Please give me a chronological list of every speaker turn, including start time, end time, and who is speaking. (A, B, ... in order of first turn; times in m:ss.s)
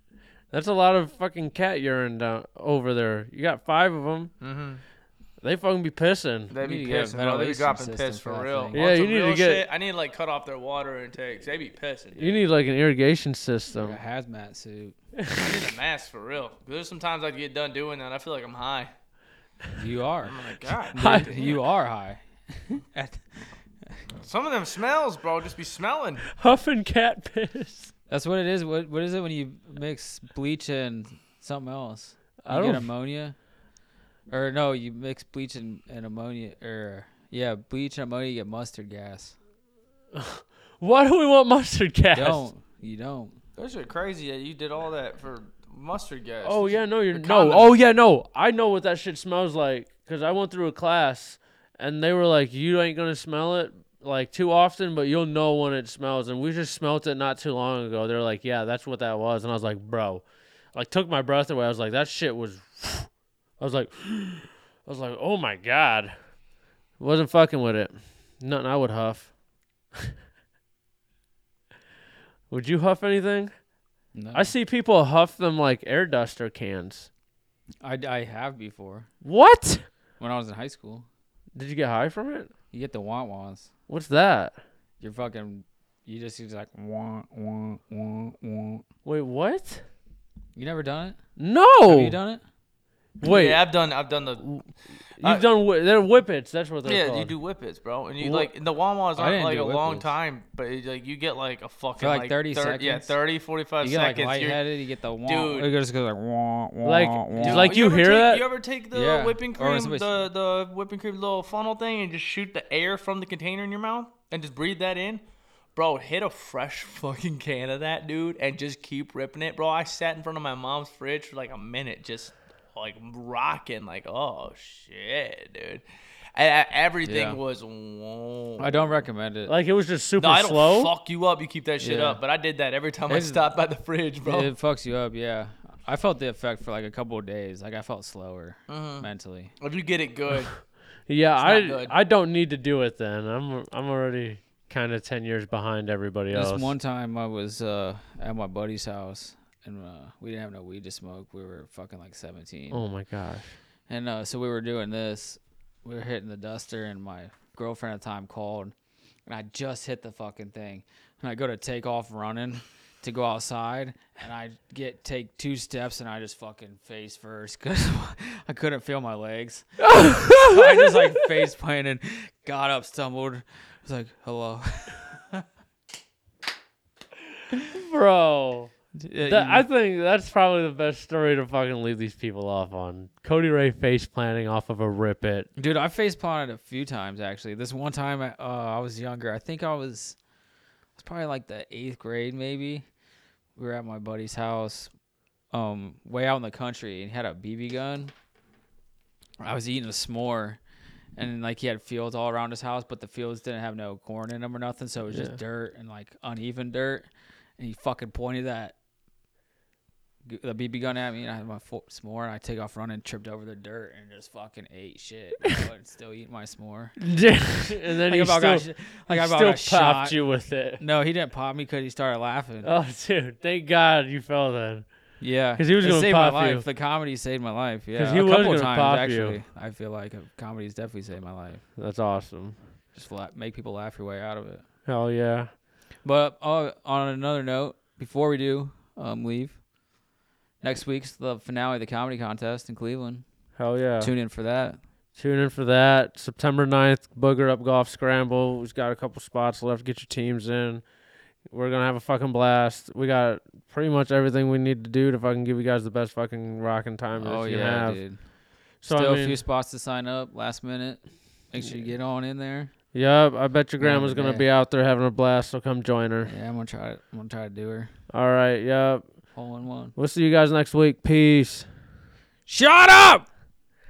0:00.5-0:04.3 A
0:04.4-0:04.8 B
0:05.4-0:06.5 A
0:06.5-0:12.4 B
0:06.6-0:08.8 C
0:08.7-0:09.6 A
0:12.2-0:14.0 A
0:13.7-0:15.0 C
0:15.4-0:18.9 B
0:19.7-0:24.0 C
0:20.2-0:21.6 B
0:20.9-0:21.3 A
0:24.2-0:26.2 B
0:26.3-0:27.9 A
0:28.1-0:33.3 C
0:32.4-0:32.9 A
0:34.3-0:39.4 C
0:40.1-0:42.5 A
0:42.1-0:43.4 C
0:43.6-0:47.7 B
0:46.4-1:03.1 A
1:03.6-1:06.2 A
1:07.0-1:09.3 A
1:12.5-1:13.5 A
1:14.1-1:14.5 C
1:14.3-1:17.1 A
1:17.8-1:19.1 C
1:19.2-1:19.8 A
1:20.2-1:21.0 C
1:21.6-1:22.5 A
1:22.7-1:23.7 C
1:23.9-1:24.6 A
1:25.0-1:28.8 C
1:29.0-1:29.8 A
1:30.5-1:31.2 C
1:31.4-1:32.2 A
1:31.8-1:32.4 C
1:33.2-1:33.7 A
1:33.2-1:34.4 B
1:34.4-1:34.7 A
1:35.2-1:37.4 A
1:36.8-1:44.6 B
1:38.2-1:38.5 A
1:39.2-1:40.1 C
1:42.0-1:43.1 C
1:43.8-1:47.7 C
1:45.2-1:45.7 B
1:46.8-1:48.4 A
1:47.4-1:55.2 B
1:48.9-1:50.2 C
1:55.7-2:05.8 B
2:06.3-2:08.9 B
2:07.0-2:07.4 C
2:08.6-2:09.5 C
2:09.4-2:10.9 A
2:10.2-2:14.5 B
2:11.8-2:12.2 C
2:13.1-2:13.5 C
2:14.2-2:19.5 C
2:18.7-2:19.1 B
2:19.6-2:20.5 B
2:21.1-2:26.7 A
2:21.4-2:21.9 B
2:26.3-2:32.8 C
2:32.7-2:33.5 A
2:33.9-2:38.7 C
2:39.2-2:55.4 C
2:49.8-2:51.2 A
2:57.7-2:58.7 A
2:59.0-2:59.6 C
2:59.2-3:05.5 A
3:05.6-3:10.2 C
3:11.0-3:12.8 C
3:13.6-3:14.9 C
3:15.5-3:18.1 C
3:19.4-3:20.6 C
3:21.2-3:27.0 C
3:25.1-3:25.4 A
3:27.6-3:28.7 C
3:30.3-3:37.0 C
3:37.0-3:40.8 A
3:37.9-3:40.2 C
3:40.8-3:42.7 C
3:42.6-3:44.8 A
3:45.2-3:51.6 C
3:45.6-3:46.6 A
3:47.9-3:49.4 A
3:51.8-3:52.6 A
3:52.9-3:54.6 C
3:54.9-3:55.5 A
3:56.0-3:59.6 C
4:00.6-4:03.2 C
4:03.6-4:04.1 A
4:04.0-4:04.8 C
4:05.2-4:10.8 A
4:11.5-4:18.0 A
4:17.2-4:18.2 C
4:18.8-4:19.4 A
4:18.9-4:22.7 C
4:22.9-4:26.3 A
4:23.8-4:24.5 C
4:26.3-4:27.9 C
4:28.1-4:29.0 A
4:29.3-4:29.9 C
4:30.0-4:31.7 A
4:32.5-4:33.3 C